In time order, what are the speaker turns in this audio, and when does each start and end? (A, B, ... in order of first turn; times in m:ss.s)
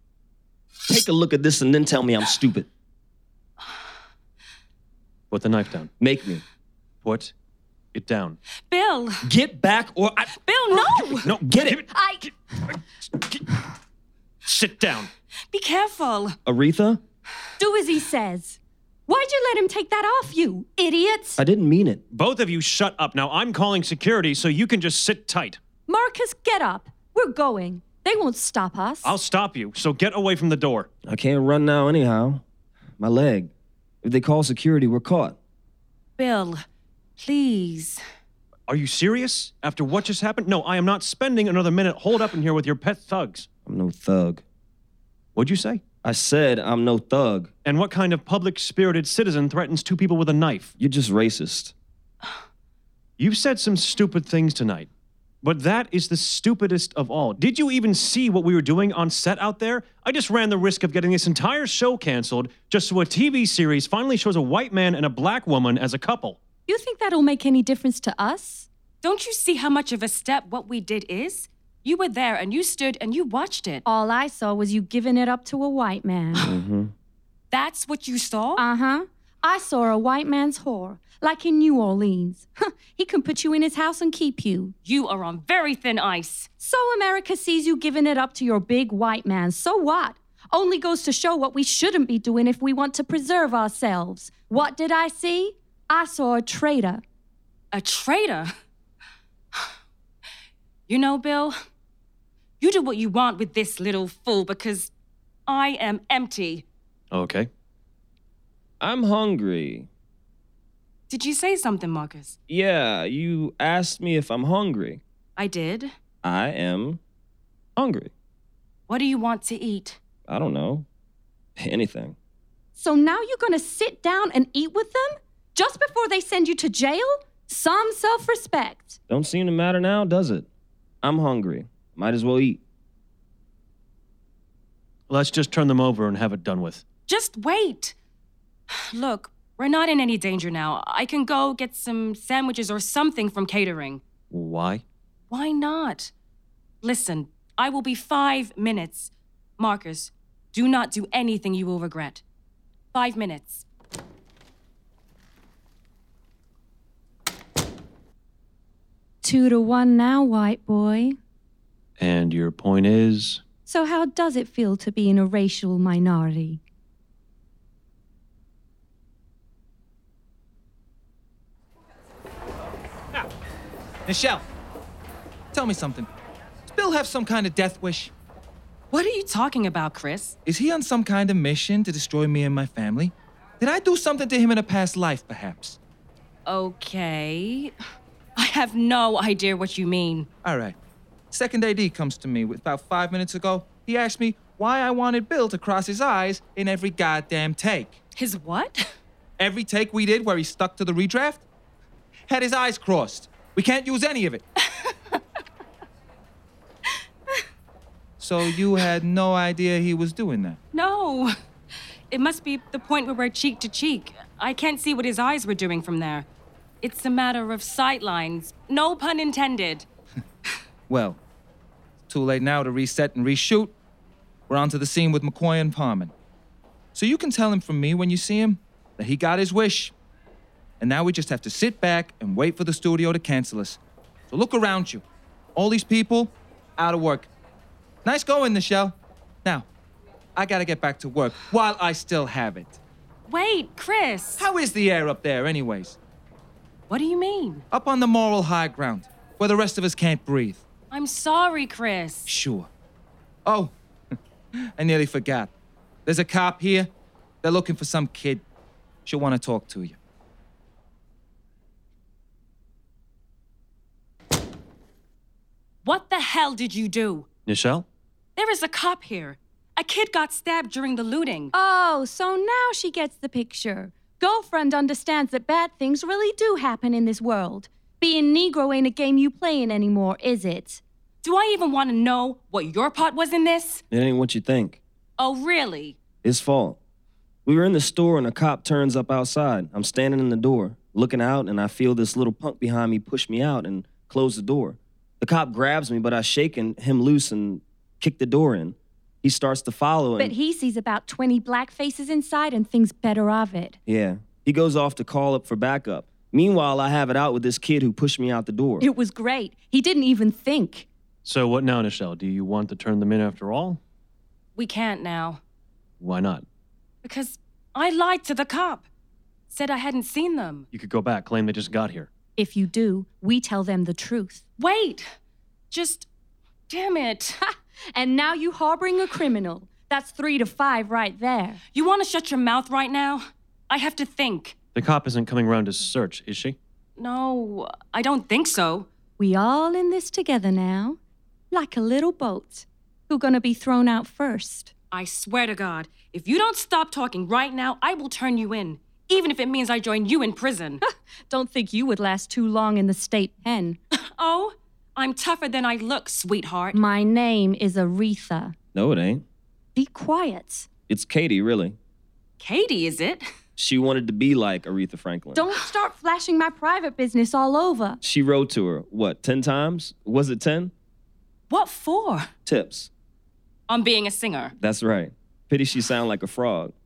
0:00.9-0:02.7 A
0:05.3-0:05.9 B
0:06.0-0:06.4 A
0:07.0-0:07.3 B
0:07.9-0:08.4 B
0:08.7-0:09.2 C
0:09.2-0:10.3 A
0:10.4-0:11.2 C
0:10.7-0:11.2 D
0:11.2-0:11.8 A
0:11.2-0:12.3 B
0:11.9-0:12.3 D
0:13.1-0:13.5 B
0:14.4-0:15.1 B
0:15.5-0:16.4 C
0:16.4-0:17.0 A
0:17.6-0:21.4 D
0:21.4-0:22.0 A
0:22.1-0:25.6 B
0:25.9-0:29.1 D
0:29.0-0:30.9 B
0:31.1-0:32.4 A
0:33.0-0:33.5 A
0:34.0-0:35.4 A
0:36.2-0:36.6 C
0:37.2-0:38.0 C
0:38.7-0:43.5 B
0:43.6-0:44.4 A
0:45.4-0:45.8 B
0:46.0-0:47.5 A
0:47.6-0:50.7 B
0:50.8-0:51.7 A
0:53.2-0:54.9 B
0:55.4-1:06.4 B
1:06.7-1:08.7 D
1:09.0-1:13.8 C
1:13.8-1:16.5 D
1:16.4-1:16.9 A
1:17.5-1:18.6 C
1:18.6-1:24.7 D
1:24.8-1:26.5 C
1:26.6-1:37.0 D
1:37.7-1:38.5 C
1:40.9-1:41.6 C
1:42.6-1:44.9 C
1:45.5-1:46.6 C
1:47.1-1:47.5 B
1:48.8-1:49.9 A
1:51.1-1:52.4 C
1:52.5-1:55.0 A
1:55.4-1:55.9 C
1:56.2-1:57.0 A
1:57.8-1:58.1 A
1:58.9-2:00.0 C
2:00.3-2:00.8 A
2:01.6-2:02.2 A
2:02.8-2:09.0 D
2:09.1-2:10.5 A
2:11.0-2:12.6 A
2:15.1-2:16.8 B
2:17.1-2:17.9 C
2:18.7-2:24.0 C
2:24.3-2:24.8 B
2:25.3-2:26.1 C
2:26.8-2:32.2 C
2:32.9-2:33.6 C
2:39.2-2:41.2 D
2:42.0-2:43.4 B
2:43.6-2:46.6 D
2:54.1-2:54.4 E
2:55.5-2:56.1 E
2:56.7-2:58.1 E
2:58.9-3:00.4 C
3:00.4-3:05.8 E
3:06.4-3:07.7 C
3:08.4-3:10.3 C
3:10.4-3:10.8 E
3:11.3-3:18.0 E
3:18.2-3:18.9 C
3:19.4-3:21.4 E
3:22.3-3:24.4 E
3:24.7-3:25.2 C
3:28.2-3:30.6 E
3:30.7-3:31.3 C
3:32.1-3:36.3 C
3:36.8-3:39.8 C
3:40.9-3:41.2 E
3:42.1-3:43.7 E
3:44.5-3:46.1 E
3:46.9-3:49.9 E
3:50.8-3:53.8 E
3:54.3-3:55.0 E
3:55.6-3:57.3 E
3:58.0-3:59.6 E
4:00.4-4:02.8 E
4:03.3-4:04.4 C
4:04.4-4:06.0 E
4:06.9-4:07.6 C
4:07.7-4:10.6 E
4:10.9-4:12.3 C
4:12.3-4:12.7 E
4:13.4-4:13.7 E
4:14.8-4:15.5 E
4:16.0-4:16.9 E
4:17.4-4:18.4 E
4:19.0-4:20.0 E
4:25.8-4:27.3 C
4:27.4-4:27.8 B
4:28.4-4:31.5 C
4:31.5-4:40.8 D
4:41.2-4:43.8 C
4:43.9-4:44.8 A
4:45.2-4:46.0 C
4:46.2-4:46.8 A
4:47.4-5:00.3 A
5:00.2-5:03.8 D
5:03.8-5:08.9 A
5:08.8-5:10.9 D
5:11.2-5:13.8 B
5:14.6-5:15.4 C
5:16.0-5:16.4 B
5:17.0-5:18.8 C
5:19.5-5:20.7 C
5:20.7-5:22.1 B
5:22.4-5:24.4 D
5:24.6-5:25.1 C
5:25.7-5:26.1 C
5:26.7-5:27.4 C
5:27.4-5:31.6 D
5:31.7-5:34.5 C
5:34.7-5:36.6 B
5:37.0-5:38.9 C
5:39.2-5:41.0 D
5:41.5-5:44.7 D
5:44.9-5:50.8 C
5:50.9-5:53.8 D
5:53.9-5:56.8 C
5:56.7-5:58.5 D
5:58.7-5:59.2 A
5:59.8-6:00.7 D
6:00.9-6:01.8 A
6:02.4-6:03.2 C
6:03.6-6:05.4 A
6:05.3-6:08.0 D
6:08.0-6:10.7 A
6:11.5-6:12.3 C
6:12.4-6:12.9 A
6:13.7-6:14.5 C
6:14.6-6:16.7 A